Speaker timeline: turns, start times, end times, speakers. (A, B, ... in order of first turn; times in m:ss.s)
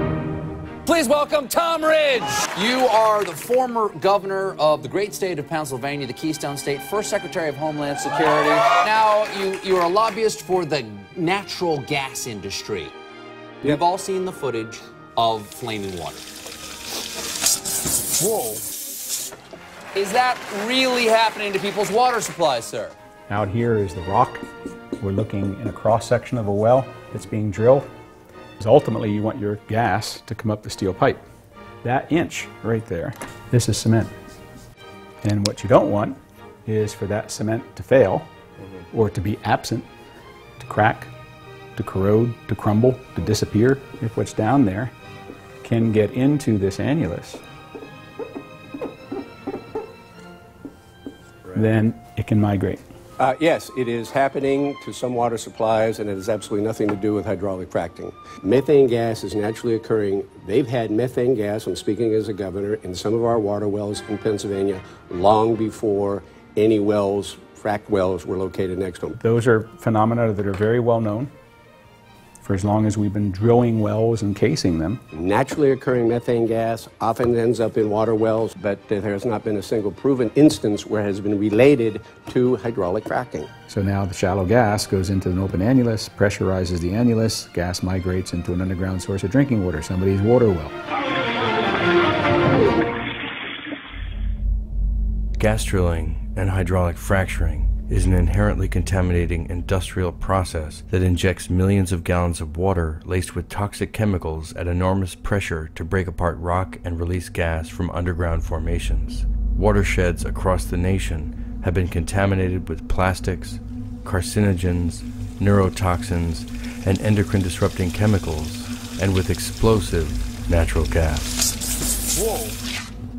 0:00.9-0:12.9 A
0:13.6-0:16.2 A
0:19.9-0:22.9 A
0:23.3-0:24.5 B
0:25.0-0:27.9 B
0:28.6-0:31.2 B
0:31.8-0:34.1 B
0:35.2-0:38.3 B
0:38.9-0:39.9 B
0:40.6-0:41.1 B
0:41.8-0:44.9 B
0:45.6-0:47.4 B
0:51.5-0:52.8 B
0:53.2-1:09.2 C
1:09.2-1:11.3 B
1:12.4-1:15.0 B
1:15.1-1:23.5 C
1:23.7-1:30.8 B
1:35.4-2:01.4 D